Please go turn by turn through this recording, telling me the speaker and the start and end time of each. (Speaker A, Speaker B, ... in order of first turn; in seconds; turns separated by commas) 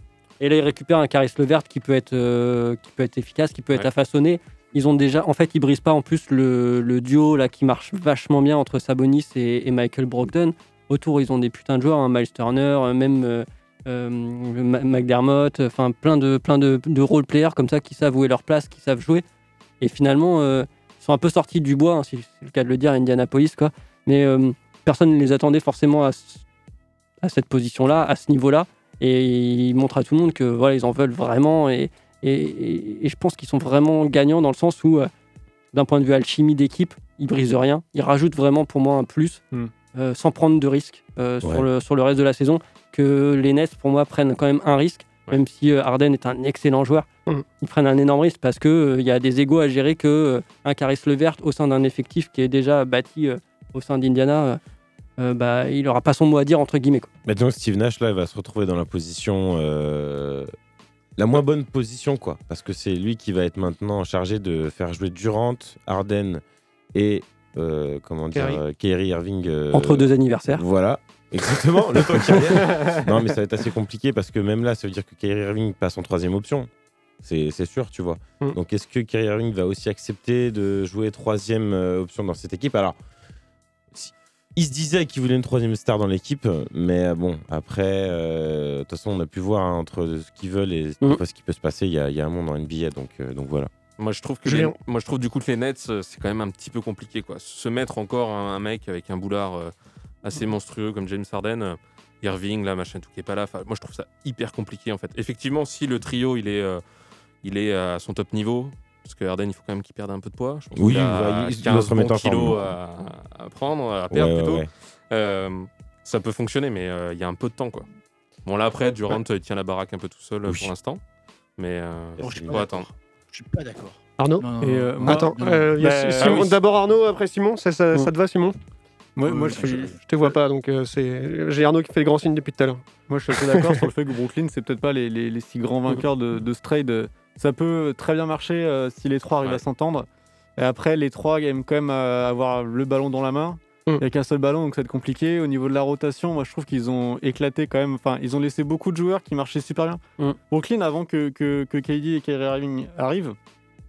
Speaker A: 0.4-19.2, Speaker A: 19.8-26.4, Speaker A: 27.2-35.1, Speaker A: 35.7-39.4, Speaker A: 39.9-47.1, Speaker A: 47.6-54.6, Speaker A: 55.2-57.1, Speaker B: 57.2-60.5, Speaker B: 61.2-66.4, Speaker B: 66.9-76.7, Speaker A: 69.7-70.6, Speaker B: 77.2-83.0, Speaker B: 83.9-93.7, Speaker C: 94.0-106.8, Speaker D: 94.5-94.8, Speaker C: 107.4-117.9, Speaker B: 110.8-112.6, Speaker B: 114.1-114.7, Speaker C: 118.5-121.0, Speaker B: 120.5-120.7, Speaker C: 121.6-122.9, Speaker B: 122.2-122.7, Speaker E: 122.2-126.4, Speaker D: 124.2-124.5, Speaker F: 124.6-126.6, Speaker D: 125.0-128.6, Speaker F: 129.2-130.3, Speaker E: 129.2-130.0, Speaker D: 129.5-132.8, Speaker F: 133.1-153.4, Speaker D: 133.5-133.8